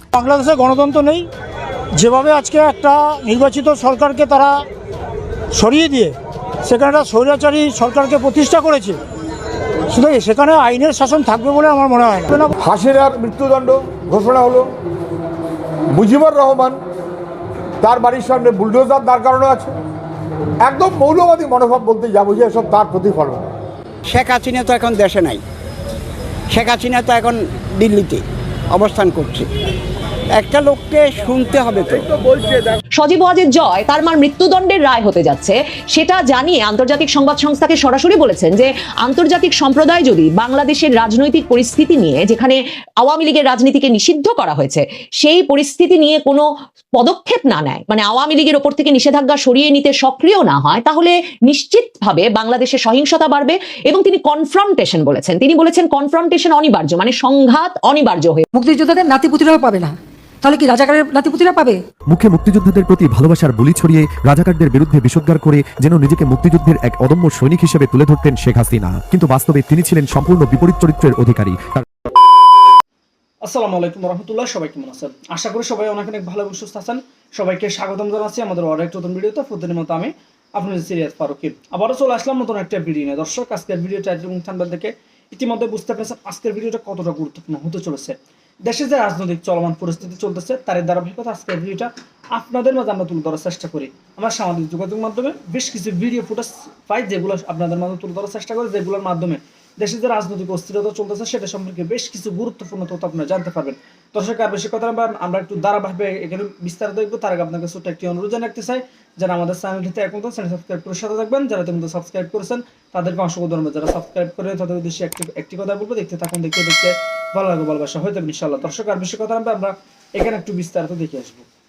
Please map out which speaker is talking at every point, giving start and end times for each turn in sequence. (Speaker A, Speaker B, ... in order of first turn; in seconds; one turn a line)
Speaker A: 0.1-1.3
Speaker A: 1.9-4.6
Speaker A: 5.5-9.0
Speaker A: 9.9-12.5
Speaker B: 12.6-14.7
Speaker B: 15.9-16.8
Speaker B: 17.8-19.8
Speaker B: 20.6-23.5
Speaker C: 24.1-25.4
Speaker C: 26.5-28.2
Speaker C: 28.7-29.5
Speaker C: 30.4-32.1
Speaker D: 33.0-58.5
Speaker E: 58.5-61.8
Speaker F: 62.1-71.8
Speaker G: 73.4-121.4